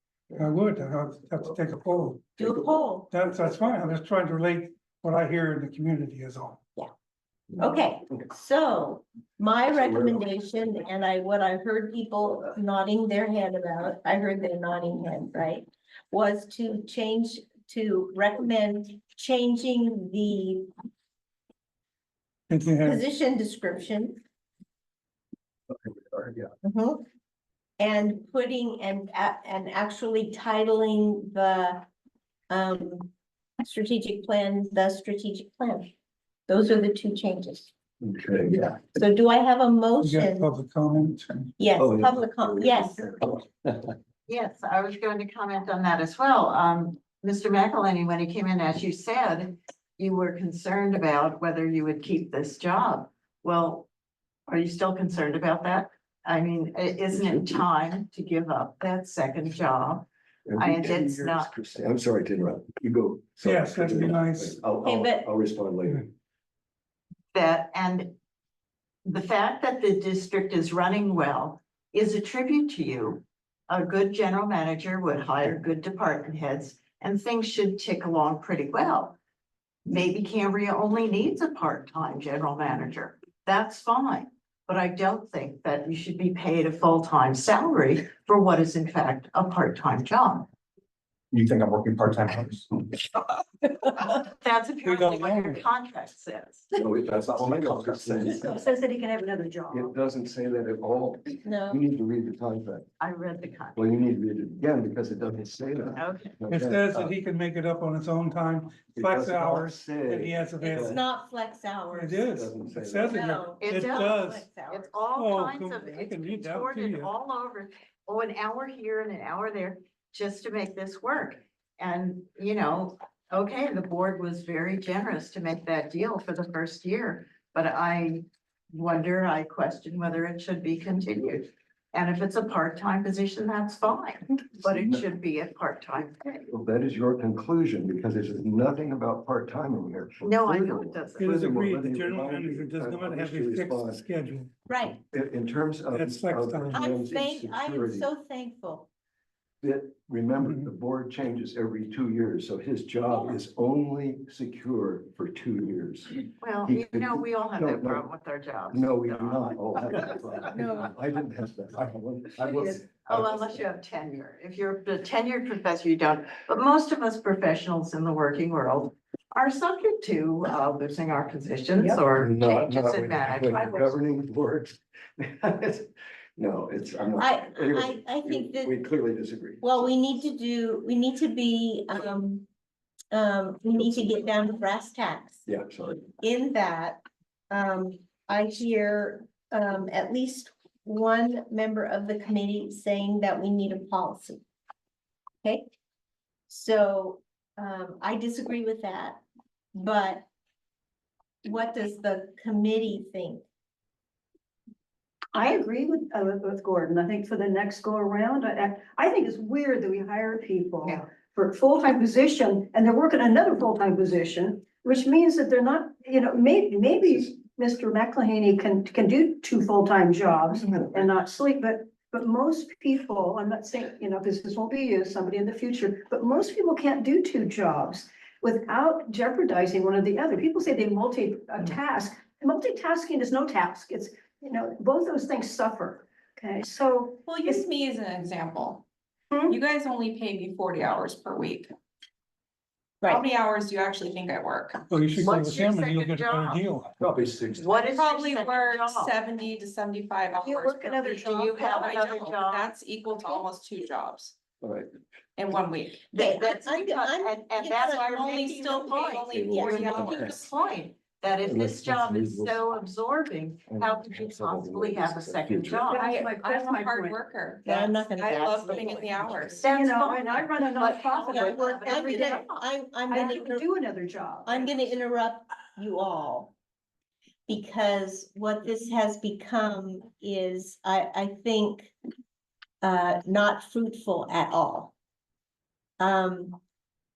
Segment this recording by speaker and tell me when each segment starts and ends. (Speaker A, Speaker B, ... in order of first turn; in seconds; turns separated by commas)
Speaker A: 0.4-2.4, Speaker B: 2.4-3.1, Speaker A: 3.1-6.6, Speaker B: 7.6-20.7, Speaker C: 9.8-10.1, Speaker A: 22.5-23.0, Speaker B: 22.8-24.2, Speaker C: 25.7-26.5, Speaker B: 26.6-27.0, Speaker B: 27.8-31.9, Speaker B: 32.5-33.1, Speaker B: 33.6-35.9, Speaker B: 36.5-37.7, Speaker C: 38.0-38.9, Speaker B: 38.9-40.5, Speaker A: 40.0-41.5, Speaker B: 41.6-43.1, Speaker C: 41.8-43.9, Speaker D: 44.3-53.9, Speaker D: 54.5-61.5, Speaker C: 57.1-57.5, Speaker C: 60.5-66.1, Speaker A: 63.4-64.6, Speaker B: 64.8-65.3, Speaker D: 67.3-68.2, Speaker D: 69.1-79.2, Speaker D: 79.9-90.5, Speaker E: 91.3-93.0, Speaker D: 94.4-96.7, Speaker A: 94.8-95.7, Speaker C: 96.8-98.6, Speaker E: 97.3-98.5, Speaker F: 98.5-99.9, Speaker C: 99.7-102.9, Speaker B: 101.5-101.8, Speaker D: 103.0-103.8, Speaker C: 103.8-107.1, Speaker D: 106.0-106.3, Speaker A: 106.5-111.0, Speaker C: 108.9-111.0, Speaker B: 110.6-112.3, Speaker A: 111.9-114.5, Speaker C: 112.3-113.2, Speaker B: 113.1-115.0, Speaker D: 113.6-136.4, Speaker A: 115.1-117.1, Speaker C: 134.6-135.1, Speaker C: 136.5-144.0, Speaker D: 140.2-141.3, Speaker A: 141.2-144.5, Speaker B: 144.7-145.0, Speaker C: 145.1-148.1, Speaker A: 145.9-146.9, Speaker B: 146.7-148.9, Speaker C: 149.6-158.1, Speaker A: 150.4-150.7, Speaker B: 153.1-153.4, Speaker D: 156.4-159.9, Speaker C: 158.7-163.4, Speaker B: 160.5-160.9, Speaker F: 162.4-162.8, Speaker D: 163.1-173.9, Speaker C: 172.1-179.9, Speaker B: 177.2-178.8, Speaker B: 179.6-182.5, Speaker B: 183.1-185.5, Speaker C: 185.5-186.1, Speaker B: 186.2-194.4, Speaker B: 195.4-195.7, Speaker B: 196.5-199.2, Speaker B: 199.8-200.3, Speaker B: 201.4-203.4, Speaker F: 205.3-237.6, Speaker C: 220.5-221.0, Speaker G: 237.3-238.8, Speaker G: 239.5-241.7, Speaker G: 243.0-244.8, Speaker A: 244.9-247.0, Speaker D: 245.2-246.6, Speaker C: 247.0-247.7, Speaker D: 247.6-249.2, Speaker G: 247.8-254.3, Speaker F: 250.4-252.0, Speaker D: 251.1-252.7, Speaker C: 254.6-254.9, Speaker G: 255.4-256.1, Speaker B: 256.1-259.9, Speaker D: 256.1-266.2, Speaker G: 257.8-260.4, Speaker C: 259.3-260.4, Speaker C: 261.4-262.7, Speaker C: 263.7-265.9, Speaker F: 265.9-267.2, Speaker G: 265.9-269.7, Speaker B: 267.6-269.0, Speaker D: 267.6-272.6, Speaker F: 269.6-272.5, Speaker G: 270.8-271.6, Speaker B: 271.3-273.7, Speaker F: 273.1-274.8, Speaker B: 274.5-276.5, Speaker B: 277.5-281.9, Speaker B: 282.8-284.9, Speaker B: 286.0-286.6